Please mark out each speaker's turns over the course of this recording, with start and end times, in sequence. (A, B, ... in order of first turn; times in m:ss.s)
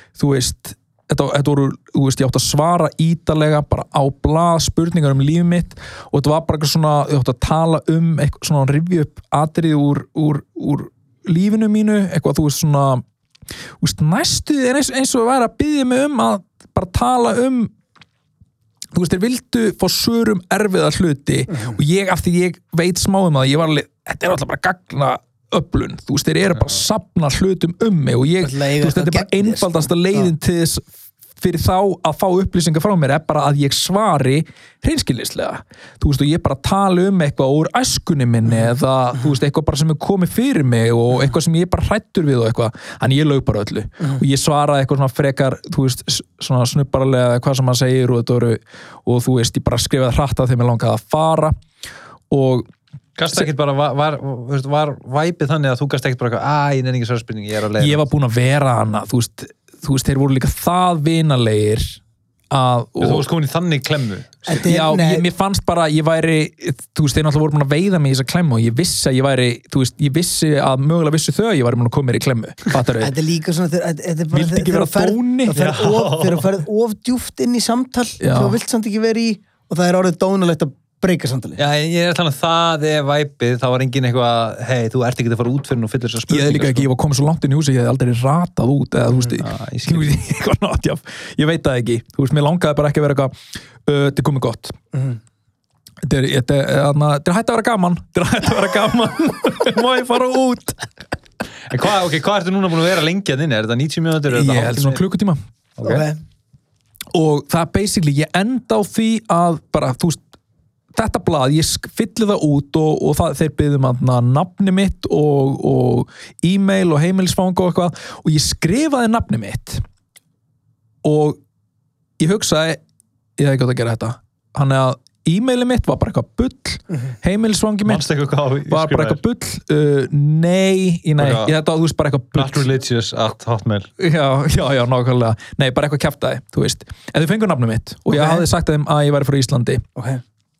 0:00.2-0:13.0 A
0:13.8-0:17.7 A
0:18.9-0:51.6 A
0:21.5-0:21.8 B
0:28.4-0:30.3 B
0:52.3-0:52.7 A
0:53.2-0:58.0 C
0:57.8-1:02.0 A
1:02.5-1:03.3 A
1:03.0-1:04.5 C
1:04.4-1:05.3 B
1:04.6-1:13.1 A
1:13.0-1:21.6 B
1:14.3-1:15.6 A
1:15.5-1:16.5 C
1:18.2-1:18.6 A
1:21.6-1:26.9 C
1:26.3-1:34.8 A
1:29.1-1:30.1 C
1:36.0-1:40.9 A
1:41.7-1:45.0 C
1:44.3-1:45.4 A
1:45.8-1:46.0 C
1:45.8-1:46.2 B
1:47.1-1:50.2 A
1:50.9-1:59.8 A
2:01.0-2:01.4 A
2:02.2-2:02.8 A
2:03.4-2:08.1 A
2:07.8-2:09.2 C
2:08.7-2:12.6 A
2:11.2-2:11.5 C
2:12.4-2:13.9 C
2:14.0-2:19.8 A
2:18.1-2:18.5 B
2:20.0-2:20.2 B